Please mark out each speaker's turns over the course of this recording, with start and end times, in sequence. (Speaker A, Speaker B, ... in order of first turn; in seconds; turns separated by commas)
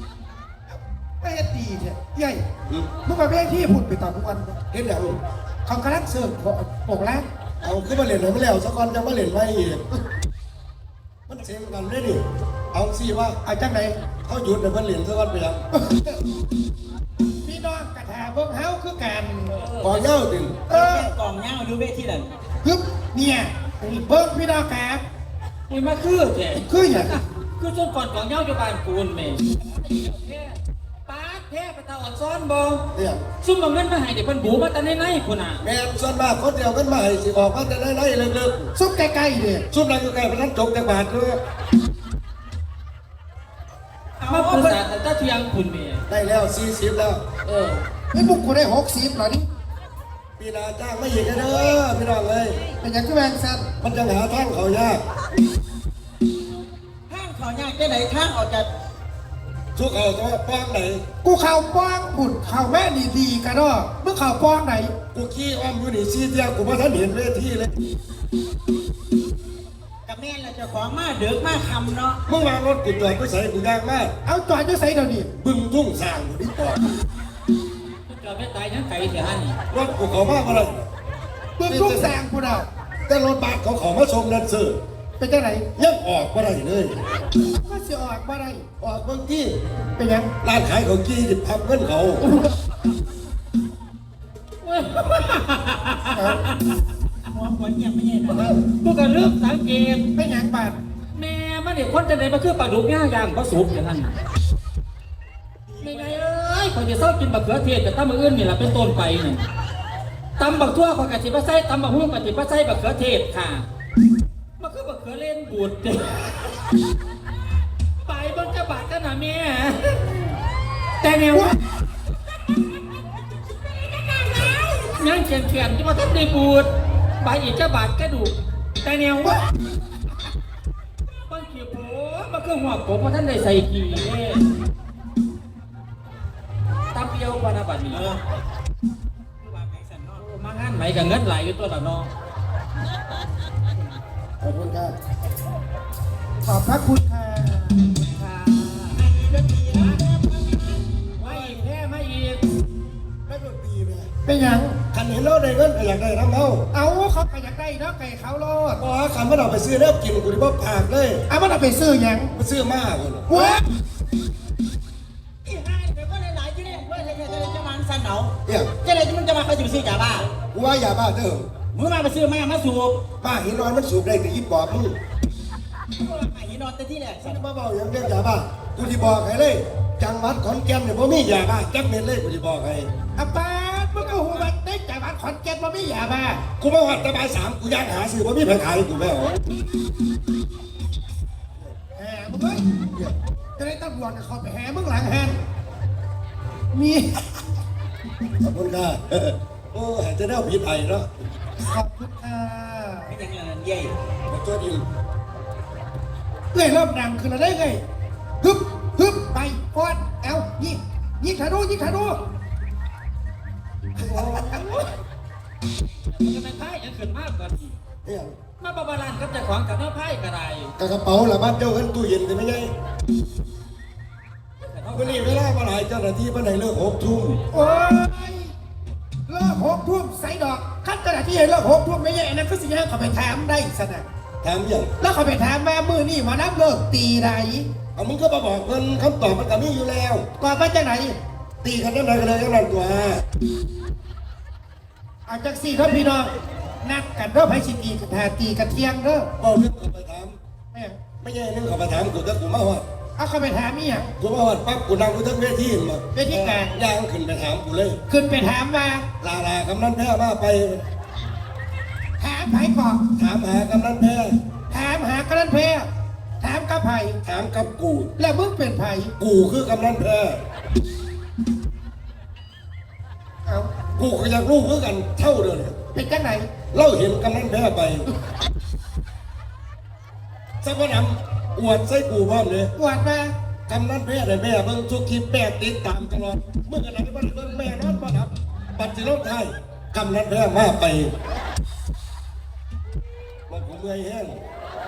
Speaker A: 1.2-2.4, Speaker A: 3.0-4.5, Speaker B: 4.7-5.2, Speaker A: 5.7-7.2, Speaker B: 7.6-9.9, Speaker B: 11.3-13.4, Speaker A: 13.4-14.0, Speaker B: 14.2-15.6, Speaker A: 15.7-16.2, Speaker A: 17.4-19.6, Speaker C: 19.5-20.0, Speaker B: 19.8-20.7, Speaker D: 20.7-22.3, Speaker A: 20.7-21.1, Speaker A: 22.6-25.0, Speaker C: 25.7-32.9, Speaker A: 26.6-27.2, Speaker B: 32.9-33.3, Speaker C: 33.4-35.6, Speaker B: 35.6-38.7, Speaker A: 38.8-39.7, Speaker B: 39.7-41.4, Speaker D: 44.2-44.8, Speaker C: 44.3-46.0, Speaker B: 46.1-47.2, Speaker C: 47.5-47.8, Speaker A: 48.1-49.5, Speaker B: 50.4-52.6, Speaker D: 51.5-51.8, Speaker A: 52.8-53.7, Speaker B: 53.8-55.0, Speaker D: 57.1-58.7, Speaker B: 59.8-61.0, Speaker A: 61.2-64.9, Speaker B: 65.1-67.8, Speaker D: 70.1-72.2, Speaker B: 72.3-74.1, Speaker A: 74.2-75.3, Speaker B: 75.4-77.0, Speaker C: 78.1-79.6, Speaker B: 79.7-80.8, Speaker A: 81.6-82.7, Speaker B: 81.7-82.2, Speaker B: 83.1-84.8, Speaker A: 85.2-85.7, Speaker B: 85.8-87.0, Speaker A: 87.4-88.7, Speaker B: 88.8-89.6, Speaker A: 90.0-90.3, Speaker B: 90.4-92.2, Speaker A: 92.2-92.5, Speaker C: 94.6-96.8, Speaker A: 96.1-96.4, Speaker D: 97.3-98.5, Speaker C: 98.3-100.1, Speaker A: 100.1-100.8, Speaker C: 101.2-104.1, Speaker D: 105.7-106.2, Speaker C: 105.8-109.4, Speaker C: 110.4-113.7, Speaker C: 114.6-116.3, Speaker C: 118.0-120.3, Speaker C: 121.0-121.6, Speaker C: 123.8-126.7, Speaker C: 127.2-129.4, Speaker C: 131.3-134.5, Speaker C: 136.9-138.2, Speaker D: 137.9-138.2, Speaker D: 139.4-140.2, Speaker C: 140.2-142.1, Speaker B: 144.4-144.9, Speaker A: 146.4-147.8, Speaker C: 147.9-149.0, Speaker D: 149.0-151.6, Speaker C: 151.2-152.4, Speaker B: 153.3-154.1, Speaker A: 154.2-154.8, Speaker B: 154.9-156.7, Speaker A: 156.7-158.8, Speaker B: 158.8-161.2, Speaker A: 161.3-162.3, Speaker B: 162.3-163.4, Speaker A: 163.3-163.7, Speaker D: 165.4-170.3, Speaker B: 168.5-168.7, Speaker B: 170.5-171.5, Speaker D: 171.7-173.0, Speaker B: 173.2-174.9, Speaker D: 175.9-177.4, Speaker B: 177.2-182.9, Speaker A: 183.2-186.4, Speaker D: 184.0-184.5, Speaker B: 186.6-189.4, Speaker A: 192.0-192.6, Speaker A: 193.6-195.4, Speaker A: 196.7-197.3, Speaker B: 198.4-201.1, Speaker A: 201.6-203.1, Speaker D: 203.1-203.9, Speaker B: 204.3-204.8, Speaker A: 206.5-207.8, Speaker A: 208.4-212.2, Speaker B: 214.0-214.9, Speaker C: 214.1-214.9, Speaker C: 216.1-217.8, Speaker B: 218.1-218.3, Speaker C: 218.6-220.7, Speaker B: 220.8-222.7, Speaker C: 224.6-225.4, Speaker B: 224.9-227.5, Speaker A: 227.5-228.5, Speaker A: 229.3-234.1, Speaker B: 234.4-234.9, Speaker A: 235.0-237.7, Speaker B: 238.0-240.3, Speaker A: 240.4-241.2, Speaker B: 241.6-243.2, Speaker A: 245.3-249.3, Speaker B: 249.4-250.4, Speaker A: 250.7-251.0, Speaker B: 251.2-252.8, Speaker A: 253.2-254.1, Speaker B: 254.2-256.1, Speaker A: 256.1-256.8, Speaker D: 256.3-256.6, Speaker B: 256.7-258.0, Speaker A: 258.1-259.1, Speaker B: 259.2-260.8, Speaker A: 262.2-263.0, Speaker B: 263.2-264.4, Speaker A: 264.7-265.9, Speaker A: 266.4-267.2, Speaker B: 267.2-268.1, Speaker A: 268.2-269.1, Speaker B: 269.2-270.4, Speaker B: 274.0-275.8, Speaker A: 275.9-276.5, Speaker B: 276.7-278.1, Speaker B: 280.6-282.7, Speaker A: 282.8-283.3, Speaker B: 283.7-291.1, Speaker B: 293.5-294.4